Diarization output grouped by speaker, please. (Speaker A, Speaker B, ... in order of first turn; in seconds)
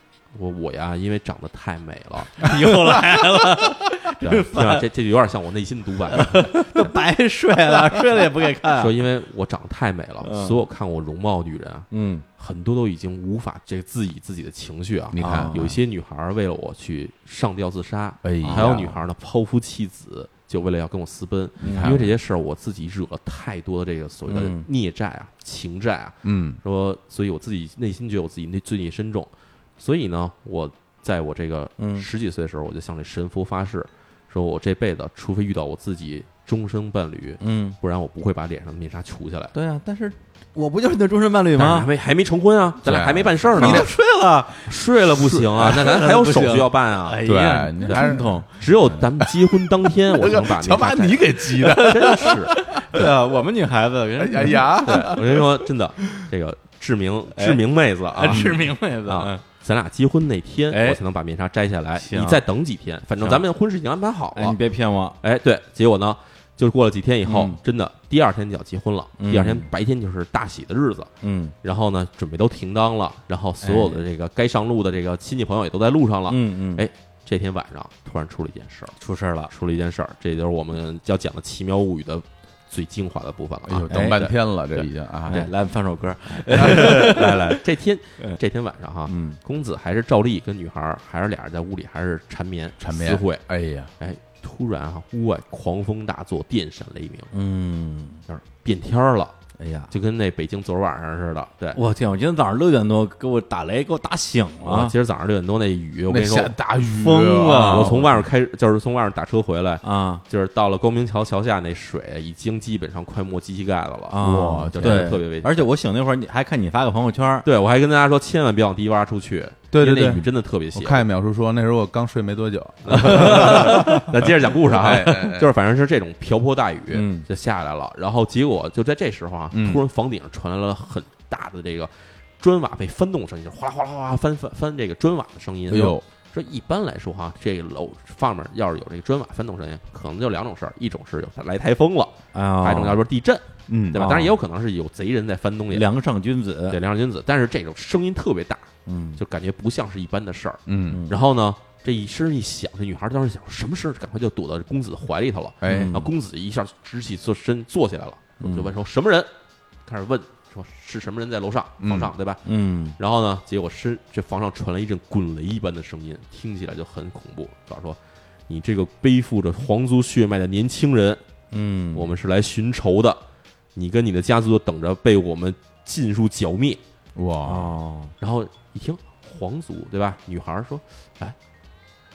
Speaker A: 0.3-3.0, 4.2-6.8, 8.7-39.5, 41.5-43.9, 44.7-47.2, 48.6-53.1, 54.8-64.6, 65.2-71.1, 71.6-79.0, 79.5-85.5, 86.4-93.4, 94.0-97.3, 98.3-99.3, 99.9-101.8, 104.6-106.5, 107.6-115.7, 117.4-121.0, 122.8-145.9, 146.7-159.3, 159.8-162.4, 163.0-168.0, 168.5-171.2, 171.9-173.2, 173.8-176.8, 178.2-181.3
Speaker B: 2.3-4.8, 6.1-8.9, 10.2-10.6, 11.9-12.2, 15.2-15.7, 18.4-18.9, 21.6-22.0, 24.3-24.6, 31.8-32.0, 37.4-37.8, 39.5-41.9, 43.5-44.8, 45.6-48.5, 51.6-55.2, 57.3-59.4, 60.7-61.0, 62.0-62.4, 64.3-65.2, 67.2-67.6, 69.2-69.7, 71.2-71.5, 73.6-74.0, 76.3-76.8, 79.0-79.5, 83.9-84.2, 85.3-87.6, 89.0-89.4, 97.3-98.2, 99.6-99.9, 101.7-104.9, 106.8-108.0, 109.8-110.2, 114.1-117.5, 119.9-120.1, 123.0-124.0, 126.9-127.2, 142.3-143.0, 143.9-144.3, 145.7-146.8, 148.8-149.2, 150.9-151.2, 155.7-156.1, 158.4-158.7, 162.4-162.9, 171.5-172.1, 177.4-178.1
Speaker C: 15.1-15.7, 18.2-19.0, 21.6-22.1, 26.2-26.6, 42.8-43.9, 45.3-45.7, 47.2-53.0, 54.2-55.5, 58.3-58.6, 83.7-85.4, 86.6-87.1, 92.8-93.9, 106.1-108.2, 114.2-115.2, 119.7-125.5, 129.5-129.8, 135.7-136.0, 143.7-144.1, 150.7-151.0, 155.6-155.9, 161.8-162.1, 177.1-177.7